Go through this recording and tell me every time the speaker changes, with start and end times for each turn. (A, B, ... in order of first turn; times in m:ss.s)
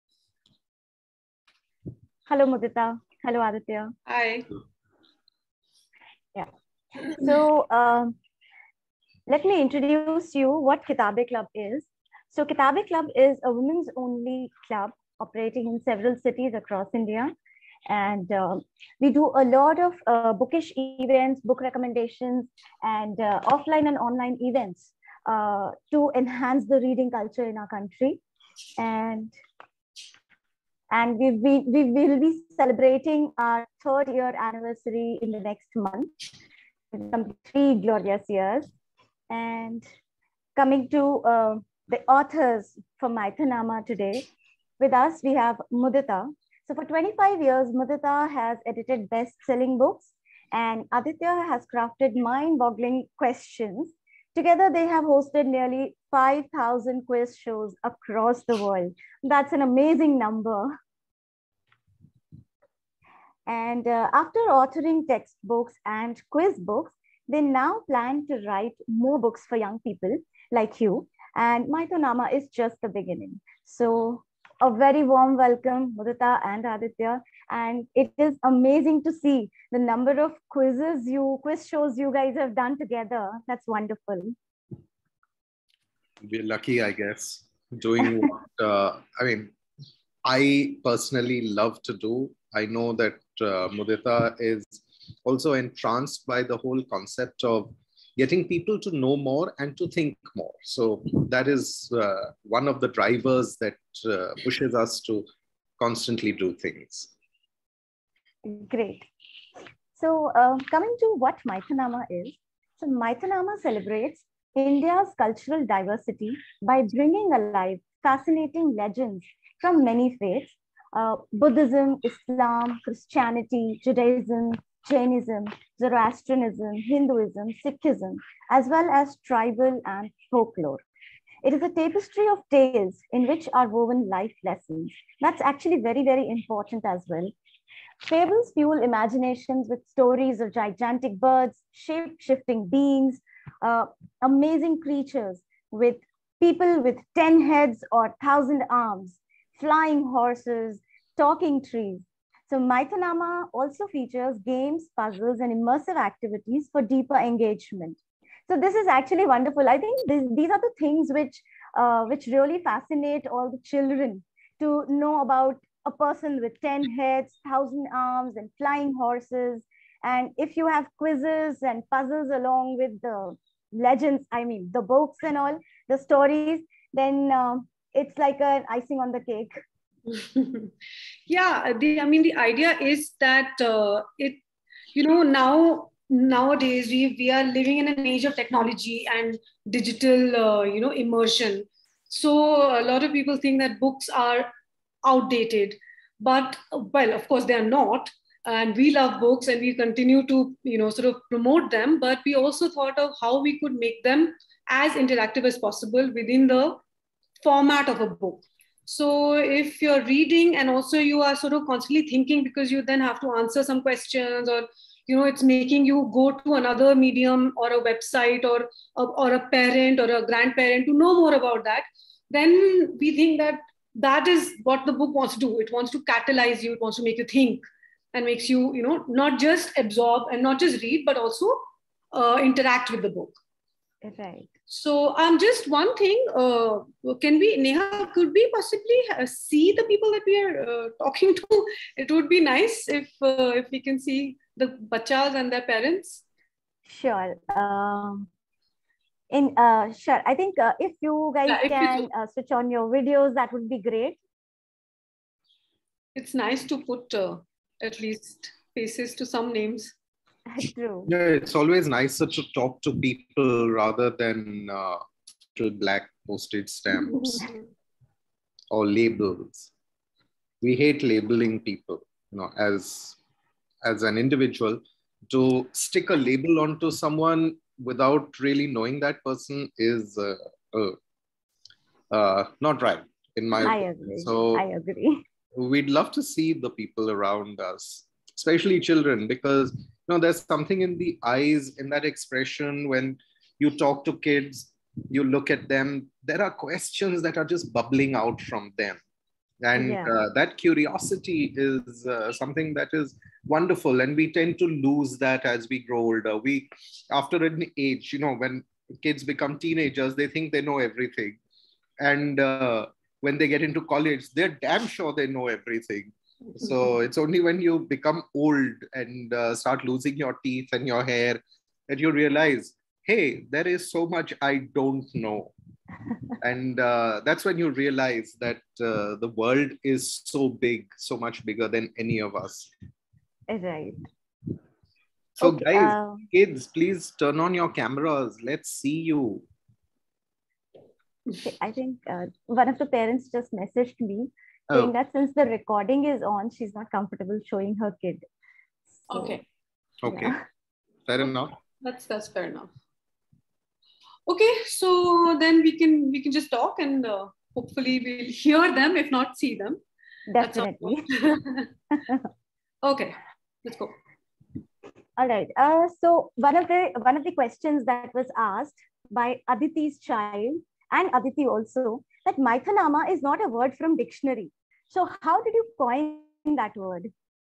0:02.3-0:03.9 A
0:04.1-0:04.5 B
0:06.3-0:08.1 A
0:09.3-0:17.3 A
0:17.9-0:28.2 A
0:28.8-0:29.3 A
0:30.9-0:36.2 A
0:36.9-0:38.7 A
0:39.3-0:39.8 A
0:40.6-0:44.2 A
0:44.8-1:00.7 A
1:03.5-1:24.3 A
1:26.2-1:29.5 C
1:30.2-1:45.2 C
1:45.8-1:47.1 C
1:48.4-1:49.0 A
1:50.0-2:10.8 A
2:11.4-2:17.3 A
2:18.0-2:59.6 A
3:00.1-3:00.7 B
3:01.3-3:04.4 B
3:04.9-3:14.5 B
3:15.0-3:26.8 B
3:27.4-3:53.4 B
3:54.0-3:54.5 A
3:54.7-4:06.2 B
4:06.9-4:08.3 A
4:09.3-4:14.2 A
4:11.5-4:12.0 B
4:16.1-4:19.9 B
4:20.5-4:21.1 A
4:21.1-4:25.0 C
4:25.6-4:27.5 C
4:28.7-4:29.7 C
4:30.6-4:33.2 C
4:33.8-4:41.0 C
4:42.1-4:44.6 C
4:43.6-4:45.2 A
4:45.5-4:59.0 C
4:59.6-5:11.4 C
4:59.7-5:00.1 A
5:12.0-5:25.5 C
5:26.4-5:32.7 C
5:33.5-5:34.0 A
5:35.4-5:39.4 C
5:35.4-5:36.2 A
5:41.4-5:48.2 A
5:49.1-5:49.4 A
5:49.1-5:49.4 B
5:50.0-5:50.4 C
5:50.0-5:50.4 A
5:51.1-5:51.6 C
5:51.8-5:52.7 B
5:54.3-5:59.8 B
6:00.3-6:01.0 A
6:00.4-6:01.7 B
6:02.8-6:03.9 B
6:05.2-6:17.1 A